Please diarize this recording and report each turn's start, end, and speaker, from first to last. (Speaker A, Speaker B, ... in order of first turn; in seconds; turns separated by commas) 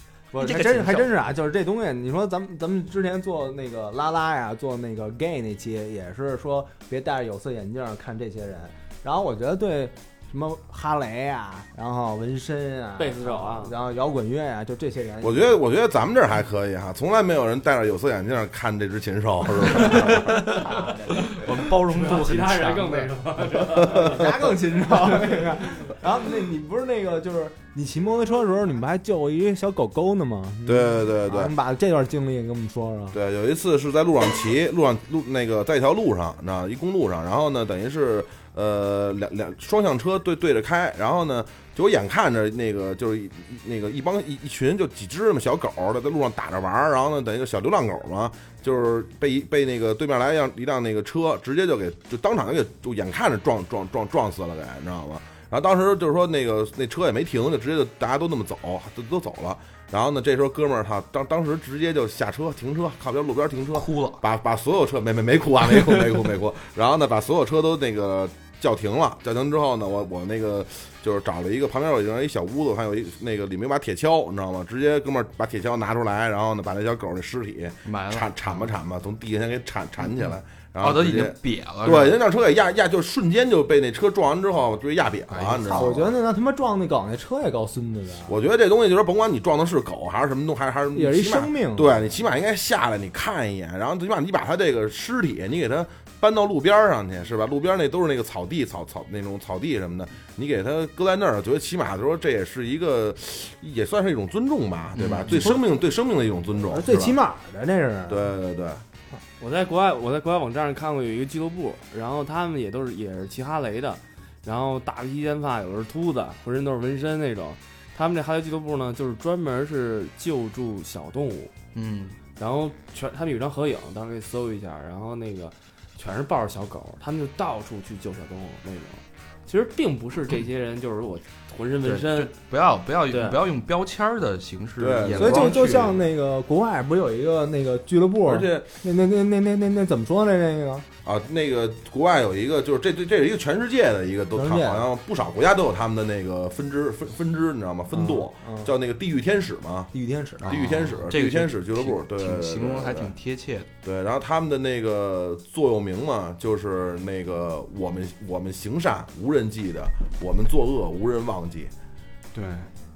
Speaker A: 0.3-15.6, Speaker B: 0.3-1.1, Speaker C: 13.0-13.7, Speaker D: 15.2-20.5, Speaker B: 19.9-23.1, Speaker C: 20.5-24.2, Speaker A: 23.7-33.2, Speaker D: 23.8-24.4, Speaker D: 30.6-31.5, Speaker D: 33.1-86.1, Speaker B: 63.7-64.2, Speaker B: 77.8-78.7, Speaker B: 80.1-82.2, Speaker B: 85.3-85.9, Speaker A: 85.6-88.4, Speaker D: 88.3-107.2, Speaker A: 90.9-92.0, Speaker B: 104.9-105.5, Speaker A: 105.3-105.6, Speaker A: 106.7-108.3, Speaker D: 108.1-108.8, Speaker C: 109.4-121.5, Speaker B: 121.7-122.2, Speaker C: 122.4-132.3, Speaker B: 131.8-136.0, Speaker C: 133.1-133.4, Speaker D: 134.8-135.9, Speaker A: 135.1-140.9, Speaker D: 138.2-138.7, Speaker D: 141.0-149.9, Speaker A: 144.3-144.9, Speaker A: 147.9-148.7, Speaker A: 149.9-150.7, Speaker B: 150.4-153.7, Speaker D: 150.5-153.1, Speaker D: 153.8-161.7, Speaker B: 162.3-162.7